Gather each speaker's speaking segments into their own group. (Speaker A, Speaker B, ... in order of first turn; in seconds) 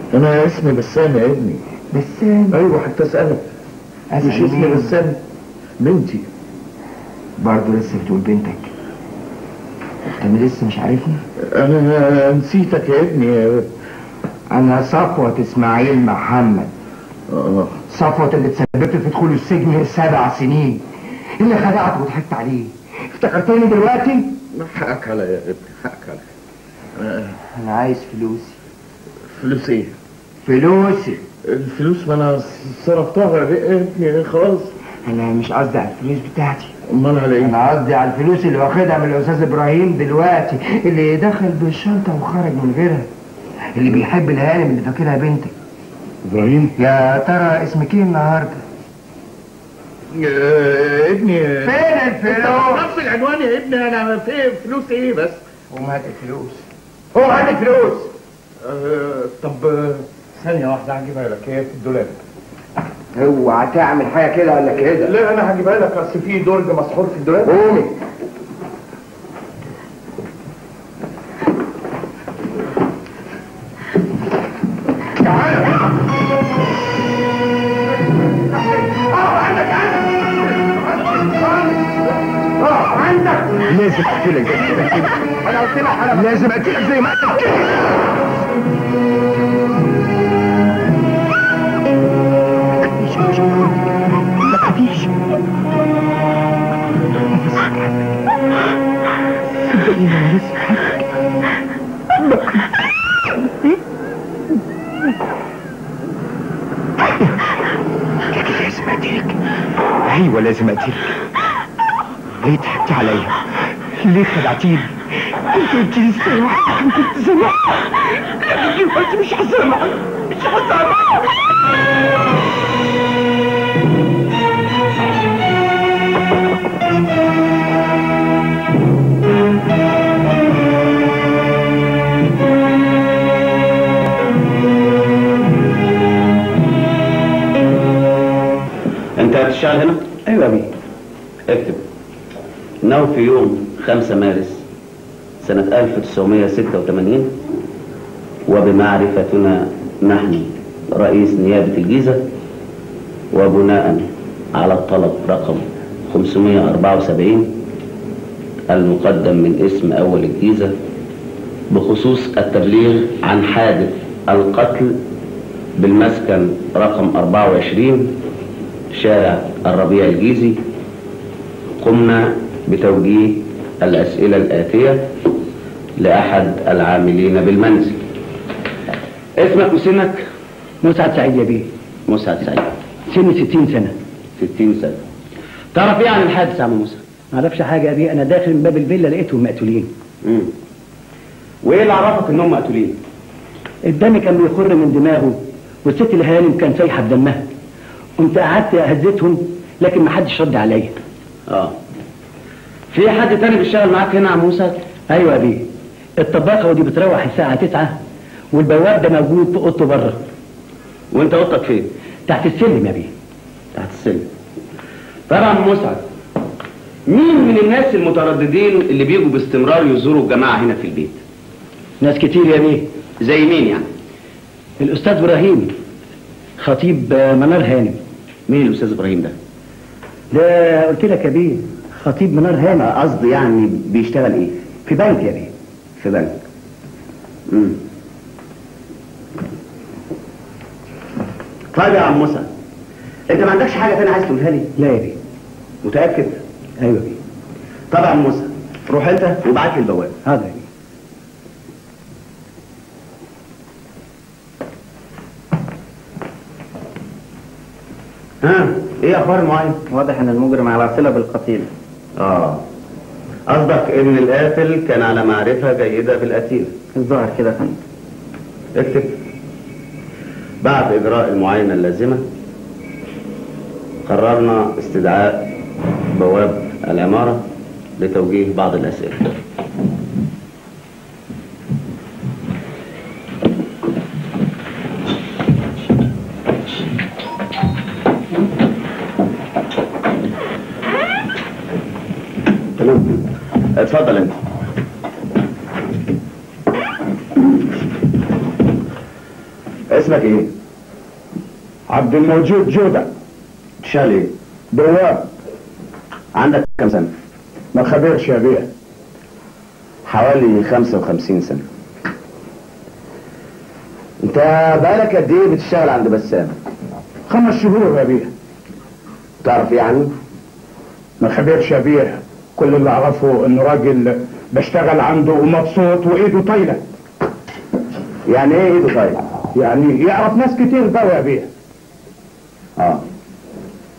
Speaker A: 0.1-1.6, 2.5-3.4, 4.2-5.2, 5.8-6.3, 11.4-13.7, 17.3-17.8, 24.5-26.2, 27.0-27.4, 29.3-29.9, 31.5-34.7, 36.9-37.6, 46.2-46.8, 50.1-55.4, 57.2-58.1, 58.6-62.1, 64.8-67.6, 75.2-75.9, 78.5-82.0, 82.6-83.7, 84.5-86.5
Speaker B: 1.9-2.6, 4.1-4.9, 7.4-8.7, 10.1-11.2, 14.5-16.7, 17.9-20.9, 21.4-24.4, 27.5-28.6, 30.4-31.2, 35.0-36.7, 37.4-43.1, 43.8-45.5, 46.8-48.6, 51.6-53.0, 55.7-56.6, 57.3-57.9, 63.1-65.1, 67.4-67.9, 83.7-85.2, 86.1-87.9, 93.0-93.7, 94.5-95.1, 97.4-97.7, 99.7-100.9, 102.2-102.5, 107.0-107.4, 108.3-109.4, 110.0-111.2, 112.4-113.4, 114.0-121.4
Speaker C: 139.2-140.1, 141.5-141.8, 142.8-144.6, 145.4-147.4, 148.5-152.2, 153.3-157.6, 158.7-160.8, 161.7-165.0, 165.8-168.2, 168.9-170.6, 171.8-175.1, 176.0-178.0, 179.4-180.3, 182.1-182.7, 184.4-185.0, 185.7-187.0, 190.2-190.5, 191.6-193.0, 201.5-201.8, 202.9-204.8, 211.1-211.9, 213.7-214.3, 215.3-216.0, 217.1-221.2, 223.2-223.8, 228.5-229.3, 232.7-234.6, 236.0-236.4, 237.5-237.8, 241.7-242.5, 243.3-244.7, 245.8-246.4, 247.9-250.2, 258.4-259.8, 262.2-262.6, 263.5-266.7, 268.8-269.2, 270.6-272.2, 274.1-275.5, 276.1-277.4, 278.0-279.3, 292.8-294.4, 299.9-300.5, 303.8-304.3, 306.4-307.1, 310.1-311.6, 314.2-316.5, 319.4-320.1, 328.3-329.2, 332.8-333.0
Speaker D: 140.3-140.7, 180.8-181.7, 183.1-183.9, 187.3-189.9, 193.8-197.5, 198.2-201.0, 205.1-205.7, 206.2-208.0, 208.5-210.2, 212.3-213.1, 222.0-222.9, 224.8-225.8, 226.6-228.0, 230.3-232.9, 234.9-235.5, 244.8-245.2, 246.8-247.2, 250.2-250.7
Speaker E: 259.9-261.7, 266.9-267.8
Speaker F: 301.9-303.1, 304.7-305.3, 307.7-308.7, 317.3-318.3, 321.2-326.8, 329.6-331.5